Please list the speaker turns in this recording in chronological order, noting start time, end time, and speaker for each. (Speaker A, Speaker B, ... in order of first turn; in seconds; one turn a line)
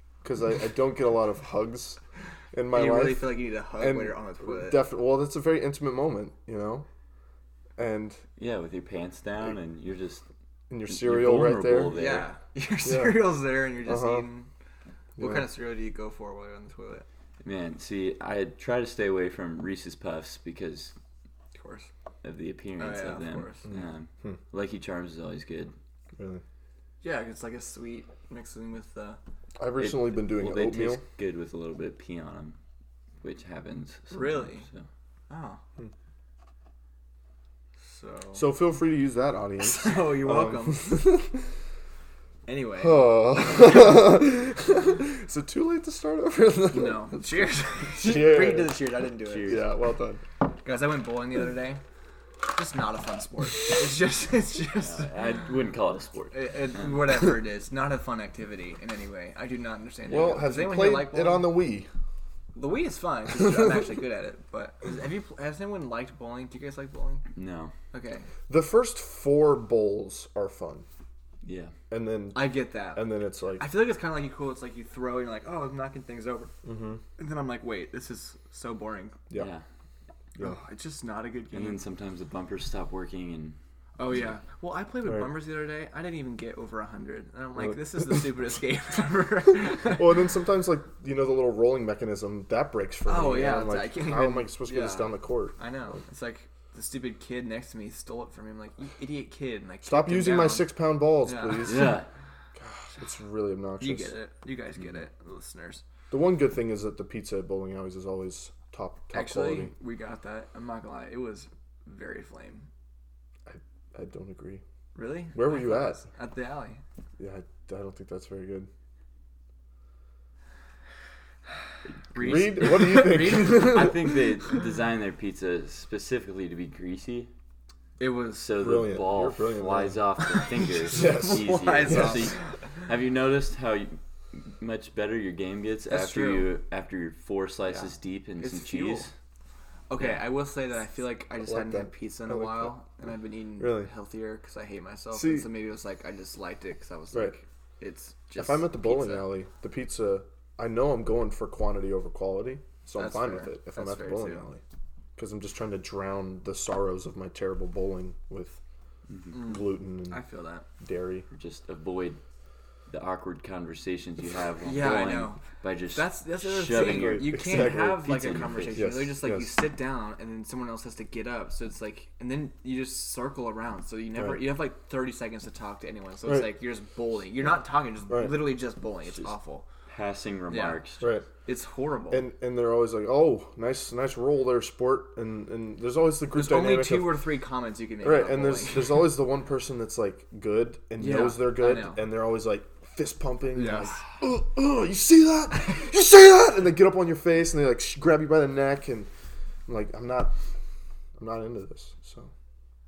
Speaker A: 0.2-2.0
Speaker A: 2.5-6.8
Speaker B: 2.7-4.8
Speaker A: 7.8-8.2
Speaker C: 8.4-10.2
Speaker A: 10.7-11.9
Speaker C: 10.9-12.3
Speaker B: 11.9-14.5
Speaker A: 12.8-13.2
Speaker A: 13.8-14.2
Speaker A: 15.2-15.4
Speaker B: 15.2-17.0
Speaker C: 17.4-20.9
Speaker B: 21.5-21.9
Speaker C: 22.2-25.7
Speaker B: 22.8-23.6
Speaker A: 23.7-24.4
Speaker A: 26.2-26.4
Speaker B: 27.0-29.2
Speaker A: 29.6-31.0
Speaker C: 29.8-32.5
Speaker C: 33.2-34.9
Speaker B: 34.1-34.6
Speaker B: 35.3-35.6
Speaker B: 37.8-38.5
Speaker A: 38.4-41.5
Speaker B: 39.6-41.1
Speaker B: 42.5-44.0
Speaker A: 42.8-48.8
Speaker B: 46.7-49.6
Speaker C: 49.2-49.6
Speaker A: 49.4-50.2
Speaker B: 50.6-51.8
Speaker B: 52.5-55.1
Speaker C: 54.8-57.0
Speaker B: 56.3-61.5
Speaker A: 60.1-61.9
Speaker B: 62.5-67.2
Speaker C: 67.3-67.7
Speaker B: 67.9-68.3
Speaker A: 68.5-70.8
Speaker C: 71.4-71.7
Speaker A: 71.9-73.7
Speaker B: 72.3-76.5
Speaker A: 76.6-77.0
Speaker B: 77.2-79.2
Speaker C: 79.3-79.6
Speaker B: 80.4-81.8
Speaker C: 81.5-83.6
Speaker B: 84.0-90.2
Speaker A: 85.0-85.3
Speaker A: 89.8-95.6
Speaker B: 93.1-101.9
Speaker A: 99.8-102.0
Speaker C: 101.6-102.1
Speaker A: 102.6-104.1
Speaker B: 103.8-105.8
Speaker A: 106.1-109.7
Speaker B: 109.1-112.7
Speaker A: 113.5-114.6
Speaker B: 114.9-116.8
Speaker A: 115.3-116.0
Speaker A: 117.2-118.7
Speaker B: 122.1-123.9
Speaker C: 122.1-127.3
Speaker A: 122.2-124.2
Speaker B: 128.0-128.5
Speaker C: 128.3-139.1
Speaker A: 128.6-130.0
Speaker B: 130.8-132.5
Speaker A: 130.9-132.3
Speaker B: 135.9-136.5
Speaker B: 137.7-139.1
Speaker B: 139.9-149.3
Speaker C: 140.0-140.2
Speaker A: 141.4-142.7
Speaker A: 143.6-143.9
Speaker A: 145.1-145.5
Speaker A: 148.3-154.6
Speaker B: 152.9-154.4
Speaker A: 155.2-158.6
Speaker C: 159.1-159.3
Speaker B: 159.3-160.7
Speaker A: 159.3-160.2
Speaker A: 160.8-161.2
Speaker C: 161.3-162.2
Speaker C: 162.9-168.8
Speaker B: 164.6-179.6
Speaker A: 166.7-168.1
Speaker A: 168.7-169.6
Speaker A: 174.2-174.4
Speaker A: 176.3-176.5
Speaker A: 178.1-178.5
Speaker C: 179.1-179.3
Speaker C: 179.8-181.1
Speaker B: 180.5-180.8
Speaker A: 181.0-181.2
Speaker B: 181.4-182.3
Speaker A: 182.1-187.2
Speaker B: 186.3-189.0
Speaker A: 188.0-199.1
Speaker B: 191.0-192.0
Speaker B: 193.5-194.0
Speaker A: 199.7-200.3
Speaker A: 201.2-202.3